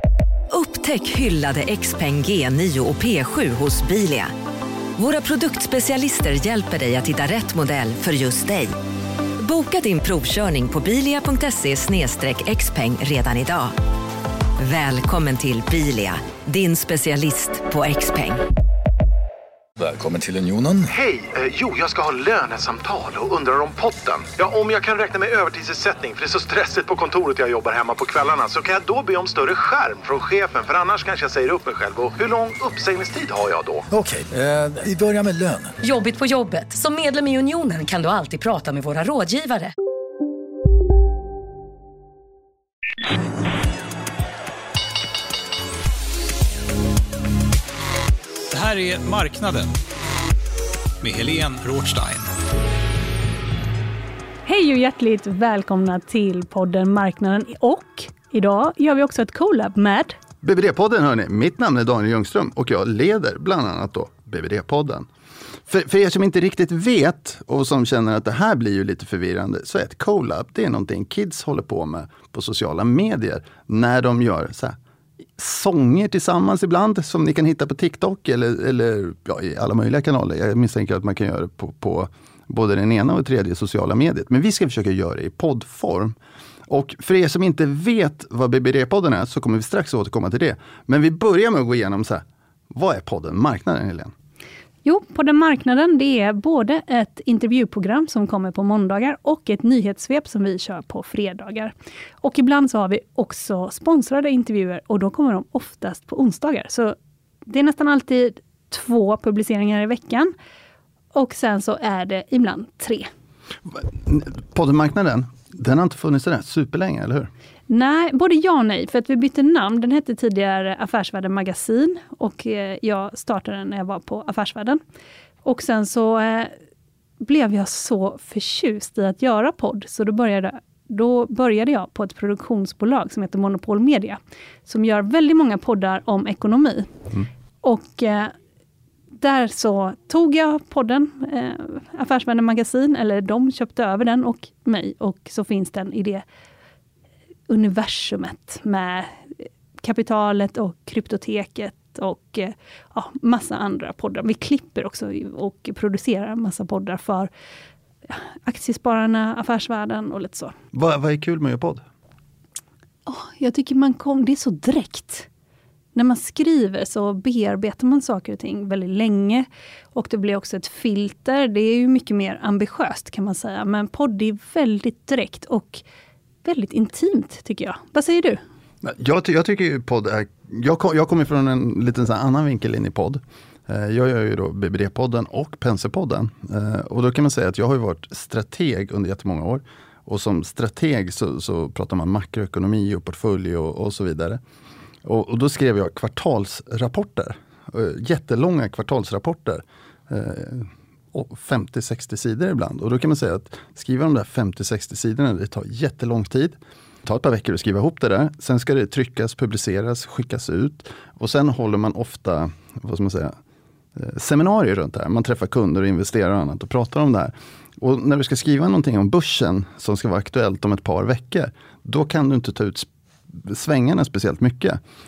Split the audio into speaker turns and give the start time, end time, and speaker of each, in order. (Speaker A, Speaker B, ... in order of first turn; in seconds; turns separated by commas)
Speaker A: 0.5-4.3, Speaker A: 5.0-8.8, Speaker A: 9.4-13.8, Speaker A: 14.6-18.4, Speaker B: 19.8-20.9, Speaker C: 20.9-33.9, Speaker B: 33.9-35.8, Speaker D: 35.8-39.7, Speaker E: 48.5-49.7, Speaker E: 51.0-52.3, Speaker F: 54.5-60.2, Speaker G: 60.4-65.1, Speaker G: 65.7-74.8, Speaker G: 75.4-86.2, Speaker G: 86.7-94.1, Speaker F: 94.8-110.3, Speaker F: 111.1-113.1, Speaker G: 113.7-117.3, Speaker F: 117.7-124.8, Speaker F: 125.5-126.5, Speaker F: 127.2-137.0, Speaker F: 137.6-138.3, Speaker F: 139.2-146.2, Speaker F: 147.5-157.3, Speaker F: 158.1-160.5, Speaker G: 160.7-161.8, Speaker F: 163.1-165.3, Speaker F: 165.9-175.8, Speaker F: 176.4-178.4, Speaker G: 178.8-194.4, Speaker G: 195.0-213.4, Speaker G: 214.0-224.8